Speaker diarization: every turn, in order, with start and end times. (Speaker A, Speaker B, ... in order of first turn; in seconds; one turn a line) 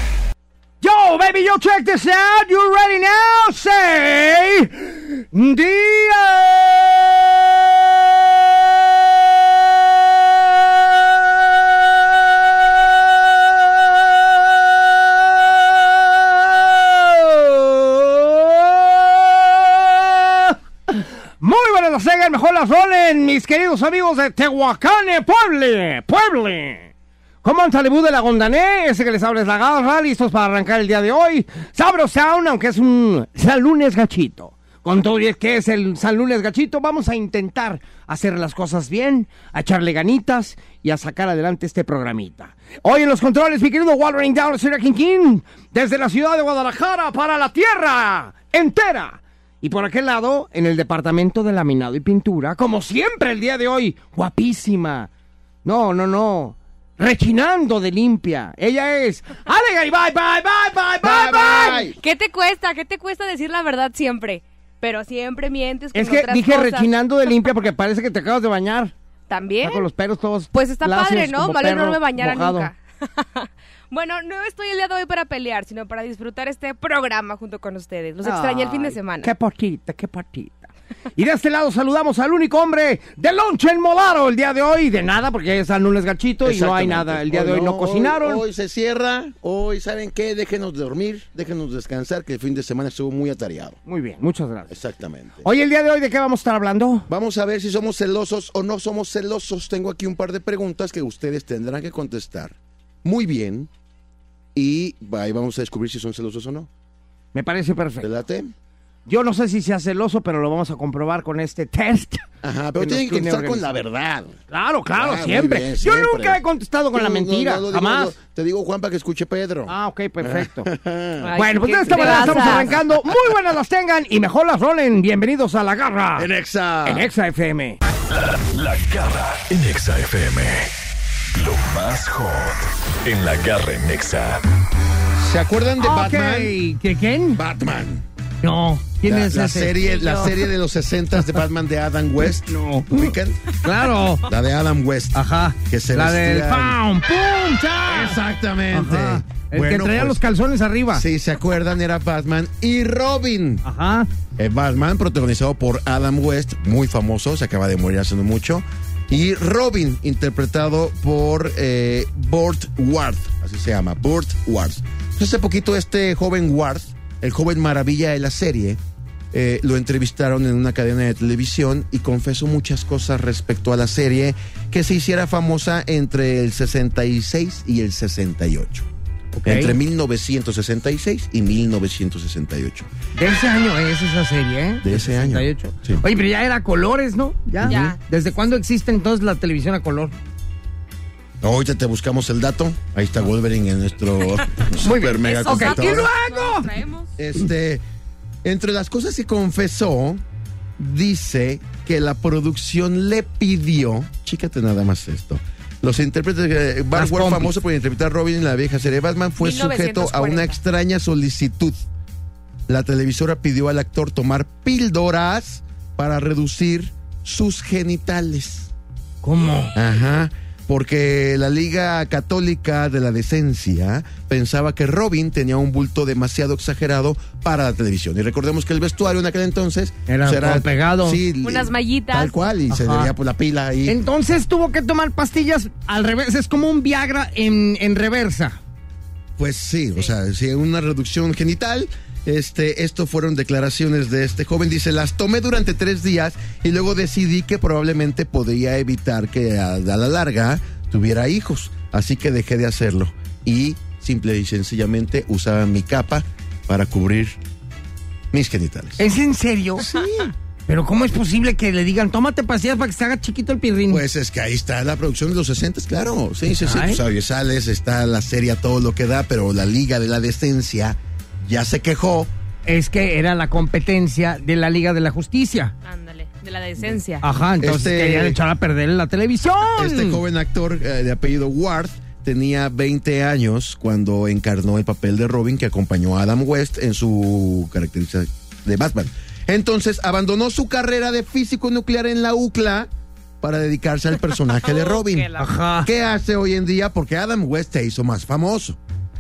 Speaker A: 0.8-7.8
Speaker A: 15.1-26.9
Speaker A: 27.4-55.1
Speaker A: 55.6-61.4
Speaker B: 61.0-62.0
Speaker C: 61.2-66.9
Speaker A: 65.9-68.9
Speaker C: 69.3-69.8
Speaker A: 69.6-72.7
Speaker C: 70.5-79.3
Speaker A: 78.2-88.4
Speaker B: 86.4-93.8
Speaker A: 93.8-94.8
Speaker B: 94.7-95.5
Speaker A: 95.4-97.1
Speaker B: 97.1-103.7
Speaker B: 104.5-106.7
Speaker A: 107.3-108.1
Speaker B: 108.0-108.5
Speaker A: 109.1-112.2
Speaker B: 112.4-114.4
Speaker A: 112.8-113.6
Speaker A: 114.5-118.1
Speaker B: 114.9-116.4
Speaker B: 116.9-121.3
Speaker A: 119.7-120.7
Speaker C: 121.2-122.7
Speaker A: 121.3-126.3
Speaker B: 121.9-122.9
Speaker B: 126.2-127.1
Speaker A: 126.8-127.8
Speaker D: 128.1-130.7
Speaker D: 131.3-134.4
Speaker B: 135.2-136.6
Speaker A: 135.8-137.4
Speaker B: 137.3-138.1
Speaker A: 138.4-139.8
Speaker B: 139.0-143.4
Speaker C: 139.8-140.3
Speaker A: 142.4-144.2
Speaker B: 144.2-146.8
Speaker A: 145.1-151.0
Speaker B: 147.8-150.2
Speaker B: 150.9-153.6
Speaker A: 153.6-154.1
Speaker B: 154.4-168.8
Speaker B: 169.3-178.9
Speaker A: 179.3-179.8
Speaker B: 179.4-182.9
Speaker A: 183.2-190.1
Speaker B: 184.8-186.0
Speaker C: 187.6-188.0
Speaker B: 191.4-196.1
Speaker A: 194.8-196.7
Speaker C: 195.0-197.1
Speaker B: 197.2-197.8
Speaker B: 198.4-200.2
Speaker B: 200.8-211.8
Speaker A: 206.9-207.5
Speaker C: 209.4-210.6
Speaker B: 212.7-218.7
Speaker A: 219.2-219.7
Speaker B: 219.7-234.0
Speaker A: 230.1-231.2
Speaker C: 231.4-232.3
Speaker A: 232.7-233.1
Speaker A: 233.9-238.6
Speaker B: 239.4-257.4
Speaker B: 258.3-259.0
Speaker A: 259.0-259.9
Speaker B: 259.8-260.3
Speaker A: 260.7-264.0
Speaker B: 263.9-272.3
Speaker A: 266.6-267.0
Speaker A: 272.6-275.7
Speaker C: 275.8-277.2
Speaker A: 277.2-280.2
Speaker B: 277.6-278.4
Speaker B: 279.8-292.9
Speaker B: 293.4-298.8
Speaker C: 294.5-295.5
Speaker A: 295.4-295.9